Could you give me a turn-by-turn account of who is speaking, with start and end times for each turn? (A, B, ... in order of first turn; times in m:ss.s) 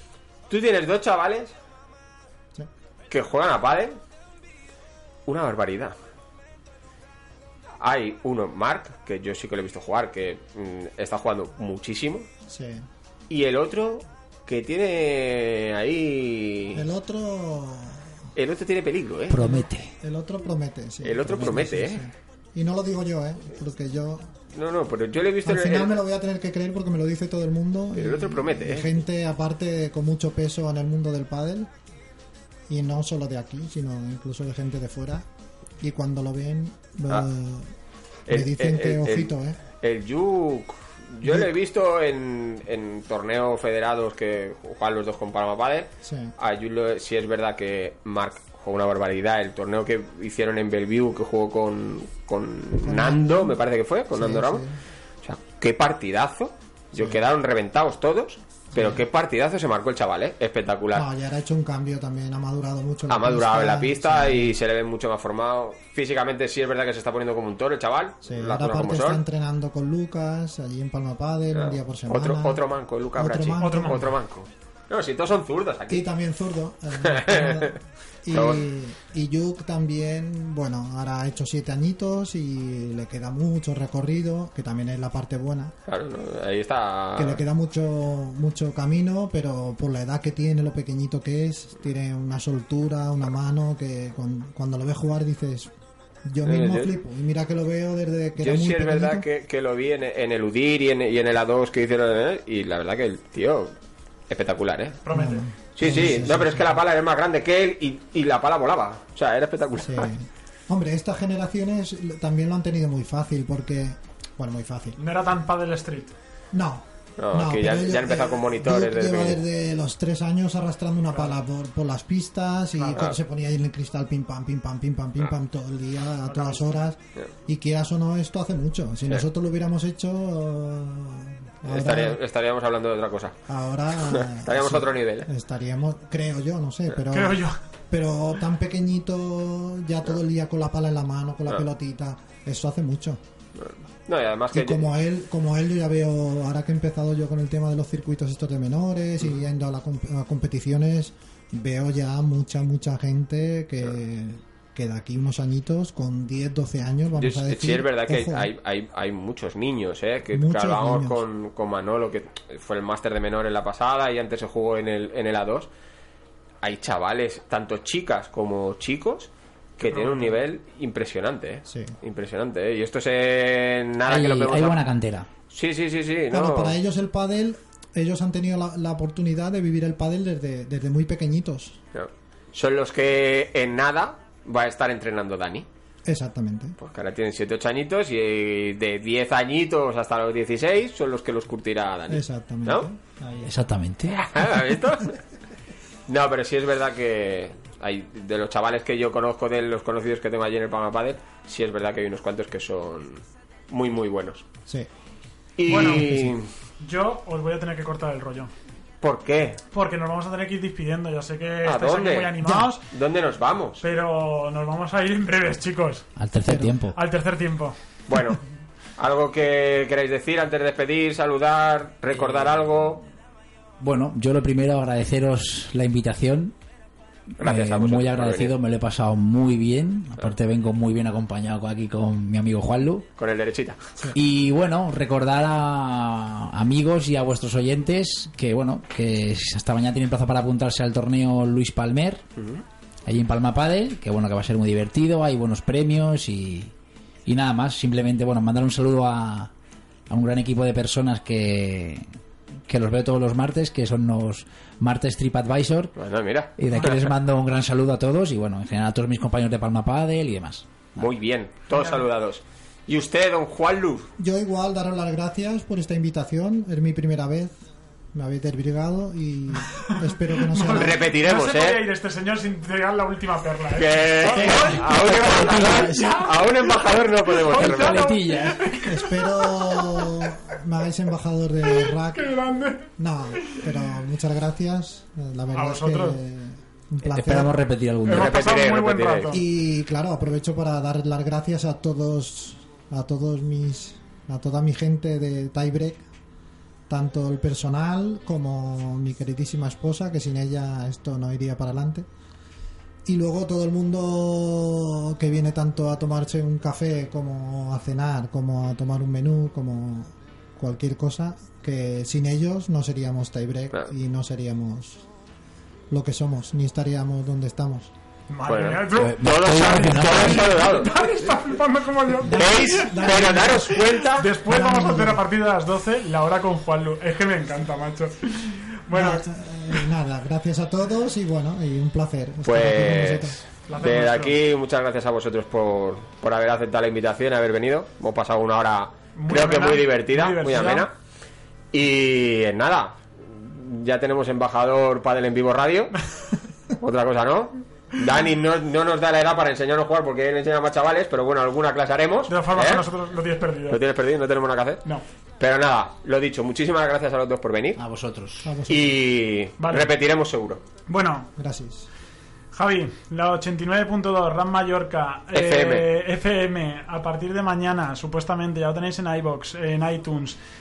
0:00.5-0:01.5 A
0:03.1-0:04.0 A
0:05.3-0:05.9 A
0:07.8-0:12.2 A
0:12.5-0:12.8 B
0:13.3-0:16.8 A
0:16.7-0:18.1 B
0:18.4-0:19.5 A
0:19.3-0:19.9 C
0:19.4-0:24.3 B
0:21.0-0:22.0 A
0:24.5-0:26.0 A
0:25.4-0:31.7 B
0:27.9-0:29.0 A
0:32.7-0:35.2 B
0:35.8-0:37.7 B
0:38.3-0:54.6 A
0:38.3-0:39.6 B
0:41.2-0:41.5 B
0:46.0-0:46.3 B
0:52.8-0:53.6 B
0:54.1-0:54.8 B
0:55.2-1:01.1 A
0:56.9-0:57.2 B
0:58.7-0:59.0 B
1:00.9-1:04.5 B
1:03.1-1:09.2 A
1:08.2-1:12.6 B
1:11.5-1:16.0 A
1:13.1-1:14.2 B
1:13.6-1:14.1 D
1:15.9-1:25.7 B
1:17.0-1:17.8 A
1:18.3-1:18.6 A
1:25.8-1:27.4 A
1:27.2-1:35.7 B
1:36.2-1:39.2 B
1:36.4-1:36.9 A
1:38.4-1:43.7 A
1:44.3-1:45.0 A
1:45.0-1:45.4 D
1:45.1-1:46.7 B
1:45.8-1:50.1 A
1:49.8-1:55.0 B
1:55.0-1:56.1 D
1:56.5-2:12.2 B
1:57.2-1:59.4 A
2:06.2-2:06.6 D
2:11.7-2:13.4 A
2:13.5-2:23.2 B
2:14.0-2:15.3 A
2:17.1-2:17.5 D
2:23.6-2:24.9 A
2:24.5-2:38.5 B
2:37.2-2:45.7 A
2:40.3-2:41.2 B
2:46.6-2:54.8 A
2:49.9-2:50.4 D
2:51.7-2:51.9 B
2:54.0-2:55.3 C
2:55.5-2:56.8 A
2:56.3-3:01.8 B
3:01.9-3:05.7 A
3:06.0-3:06.8 B
3:06.8-3:12.9 A
3:12.1-3:13.6 B
3:13.4-3:14.4 C
3:14.2-3:15.2 A
3:16.1-3:24.4 A
3:25.6-3:26.5 A
3:25.7-3:26.2 D
3:25.7-3:26.3 B
3:26.8-3:28.5 D
3:29.0-3:29.6 A
3:29.7-3:32.8 D
3:31.6-3:33.8 A
3:33.8-3:36.1 D
3:36.2-3:37.0 C
3:36.4-3:36.7 B
3:36.9-3:37.7 D
3:38.1-3:38.4 A
3:39.0-3:43.0 A
3:43.8-3:46.5 C
3:47.4-3:53.1 C
3:47.4-3:48.5 A
3:53.2-3:53.8 A
3:54.1-4:02.2 C
4:02.4-4:02.6 A
4:03.0-4:06.7 C
4:07.2-4:09.5 C
4:10.1-4:12.0 C
4:12.7-4:15.9 C
4:16.0-4:17.1 A
4:16.6-4:21.0 C
4:21.0-4:24.1 A
4:21.7-4:22.0 D
4:24.2-4:31.0 B
4:29.9-4:34.9 D
4:30.7-4:31.8 A
4:33.8-4:38.2 A
4:34.2-4:36.3 C
4:35.6-4:36.2 D
4:37.4-4:40.2 D
4:37.5-4:38.9 C
4:38.8-4:42.4 B
4:41.7-4:43.6 D
4:43.0-4:47.6 B
4:45.5-4:46.2 D
4:47.0-4:48.4 C
4:48.0-4:49.4 D
4:48.1-4:49.3 A
4:49.3-4:56.0 B
4:56.9-5:02.1 B
5:03.0-5:15.0 B
5:15.9-5:17.9 B
5:18.3-5:23.2 D
5:18.4-5:20.9 A
5:18.9-5:20.6 C
5:22.2-5:23.9 B
5:22.3-5:24.3 A
5:24.1-5:29.2 D
5:24.5-5:25.2 B
5:28.9-5:33.4 B
5:32.4-5:40.9 A
5:33.7-5:34.4 D
5:39.2-5:40.9 D
5:41.7-5:46.0 A
5:46.8-5:52.9 A
5:52.3-5:53.8 D
5:53.7-5:54.8 A
5:55.4-5:57.8 A
5:57.8-5:58.5 C
5:58.4-5:58.9 B
5:58.7-6:00.6 A
5:59.6-5:59.9 D
6:00.9-6:01.3 D
6:01.4-6:01.9 B
6:02.5-6:10.4 D
6:05.3-6:05.9 A